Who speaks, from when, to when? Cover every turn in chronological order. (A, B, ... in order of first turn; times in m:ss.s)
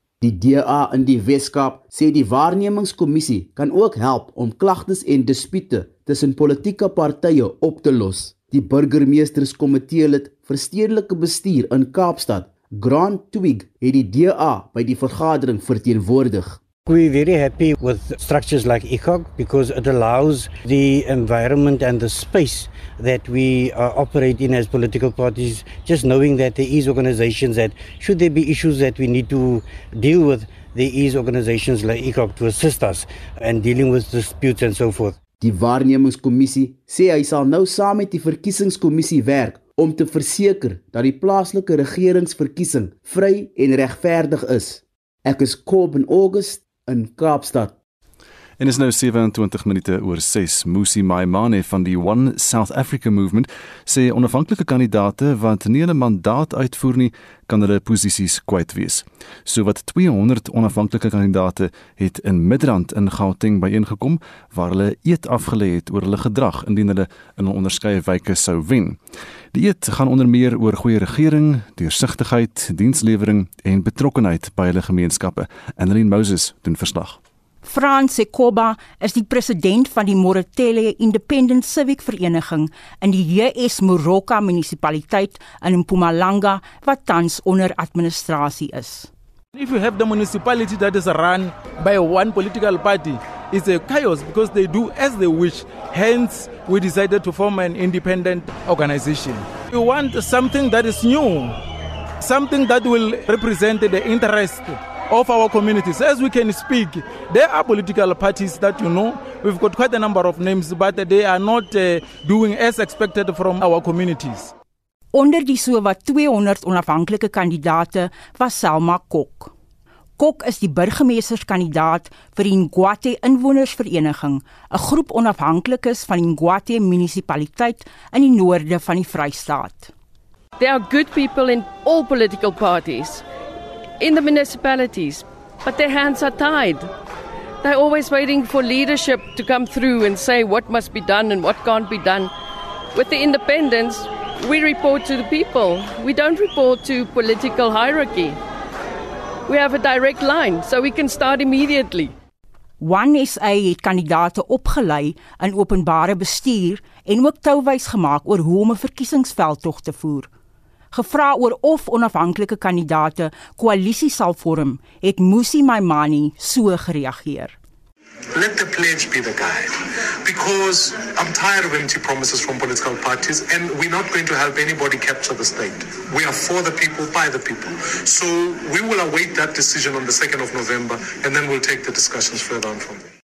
0:00.2-0:16.6 A
0:16.9-0:35.2 B
0:35.4-0:47.8 A
0:48.6-1:09.0 C
1:09.5-1:17.2 C
1:17.6-1:29.1 D
1:29.5-1:41.6 E
1:42.2-1:54.5 E
1:55.1-1:59.5 D
2:00.2-2:09.9 D
2:10.6-2:13.2 F
2:14.0-2:16.9 F
2:17.6-2:22.3 F
2:22.9-2:28.4 F
2:29.5-2:32.1 F
2:32.8-2:40.3 D
2:40.9-2:47.6 D
2:48.4-3:03.0 G